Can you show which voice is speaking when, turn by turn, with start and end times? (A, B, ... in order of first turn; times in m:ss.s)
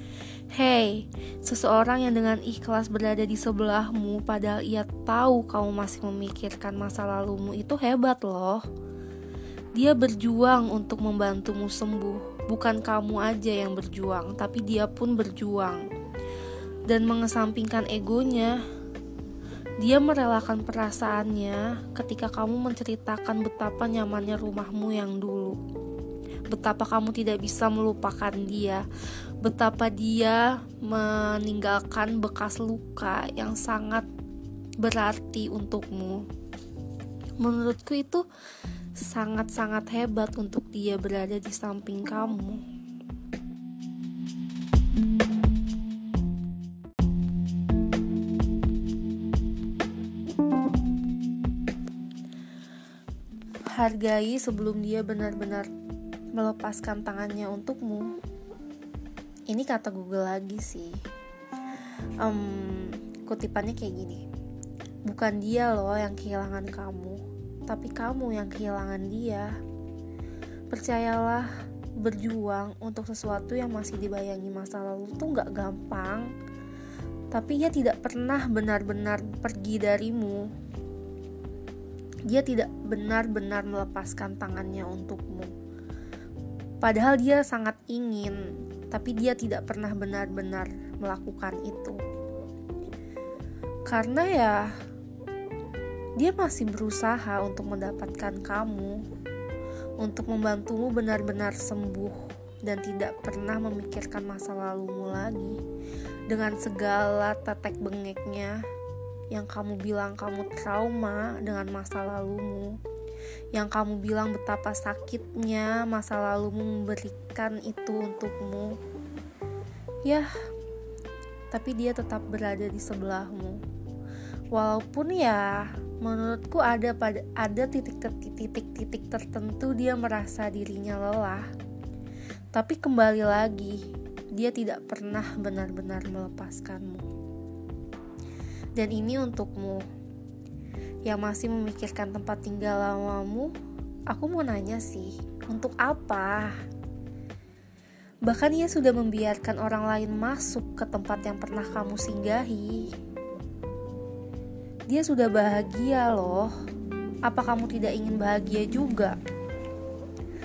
0:00.5-0:08.6 A
0:09.7-0:15.8 A
0:16.9-0:18.6 A
0:19.8-0:25.6 A
0:26.5-0:28.8 A
0:29.4-0:34.1 A
0:34.8-0:36.2 A
0:37.4-0:38.2 A
0:39.0-0:42.6 A
0:53.7-0:55.7 A
0:56.3-0:58.1 A
0:59.5-1:01.0 A
1:02.2-1:04.2 A
1:05.1-1:09.5 A
1:10.7-1:16.3 A
1:17.3-1:20.5 A
1:22.3-1:25.5 A
1:26.8-1:32.0 A
1:33.9-1:34.7 A
1:36.2-1:39.0 A
1:40.0-1:45.6 A
1:46.3-1:48.6 A
1:49.3-1:52.8 A
1:53.5-1:58.8 A
2:01.5-2:03.6 A
2:04.5-2:11.5 A
2:12.5-2:13.8 A
2:14.3-2:17.0 A
2:18.8-2:19.8 A
2:21.0-2:23.5 A
2:24.1-2:26.5 A
2:28.2-2:32.9 A
2:34.9-2:36.5 A
2:37.2-2:39.2 A